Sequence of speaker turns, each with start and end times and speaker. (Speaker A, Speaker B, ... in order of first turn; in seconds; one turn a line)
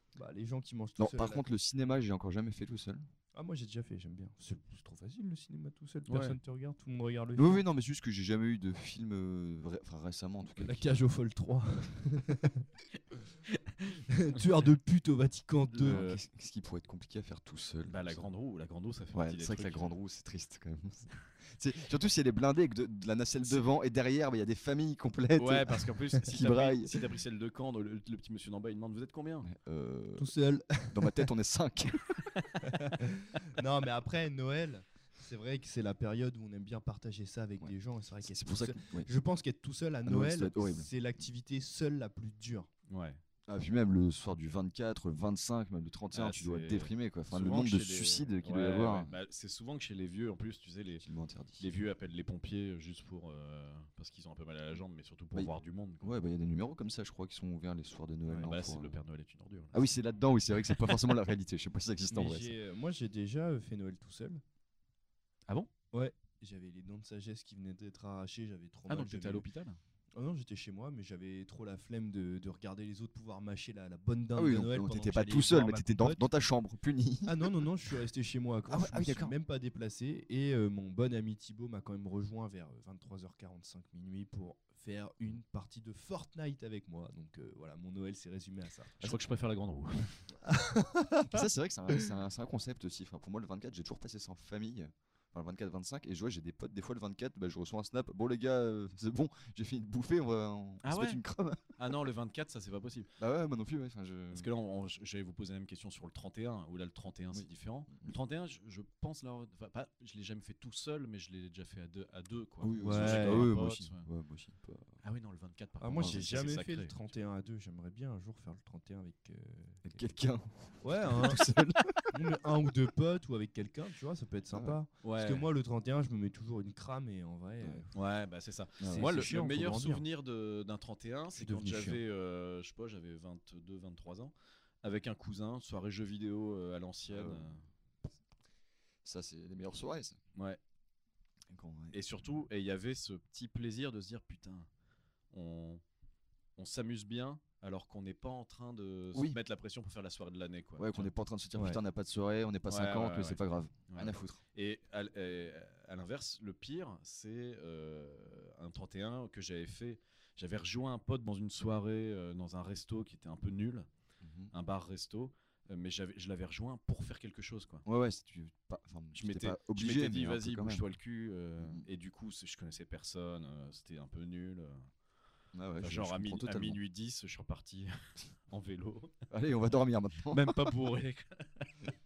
Speaker A: 0.2-1.5
Speaker B: 1.0-3.0
Speaker A: 3.3-7.6
Speaker C: 6.1-6.4
Speaker B: 7.4-11.1
Speaker A: 10.6-12.7
Speaker A: 14.1-16.0
Speaker B: 15.8-18.3
Speaker C: 15.8-16.2
Speaker C: 17.9-19.9
Speaker B: 19.1-26.9
Speaker C: 25.4-29.5
Speaker B: 29.4-30.3
Speaker A: 30.2-31.3
Speaker B: 30.9-32.3
Speaker A: 32.7-42.7
Speaker B: 38.3-39.1
Speaker B: 40.0-40.9
Speaker C: 42.9-43.2
Speaker B: 43.5-49.1
Speaker C: 46.1-51.0
Speaker B: 51.0-51.7
Speaker C: 51.6-56.2
Speaker B: 55.3-59.0
Speaker C: 58.3-59.9
Speaker B: 59.7-62.5
Speaker A: 62.1-64.4
Speaker A: 65.9-69.5
Speaker C: 68.9-69.8
Speaker A: 70.2-76.2
Speaker B: 74.4-77.7
Speaker A: 77.3-89.0
Speaker B: 78.7-79.3
Speaker C: 89.0-90.2
Speaker A: 90.4-91.4
Speaker B: 91.2-101.6
Speaker C: 100.8-101.2
Speaker C: 101.8-103.1
Speaker B: 103.2-104.5
Speaker C: 104.3-114.1
Speaker B: 107.3-108.1
Speaker B: 112.6-115.0
Speaker A: 112.8-113.5
Speaker C: 115.0-117.0
Speaker A: 115.8-119.9
Speaker B: 119.8-122.1
Speaker A: 120.8-121.4
Speaker A: 122.0-127.9
Speaker B: 124.5-124.8
Speaker C: 125.0-125.5
Speaker C: 127.9-137.6
Speaker B: 128.8-129.1
Speaker A: 128.8-130.0
Speaker A: 131.3-132.0
Speaker B: 137.1-137.6
Speaker B: 139.0-140.2
Speaker C: 140.3-140.6
Speaker B: 141.5-142.0
Speaker C: 141.9-144.7
Speaker C: 145.3-145.8
Speaker C: 146.6-151.1
Speaker B: 149.1-149.4
Speaker B: 150.8-154.4
Speaker A: 151.6-151.8
Speaker C: 152.7-163.9
Speaker B: 164.2-164.5
Speaker C: 164.5-167.8
Speaker B: 167.8-170.8
Speaker C: 169.2-174.9
Speaker B: 175.5-176.8
Speaker C: 175.8-179.1
Speaker B: 179.3-180.7
Speaker C: 180.3-181.7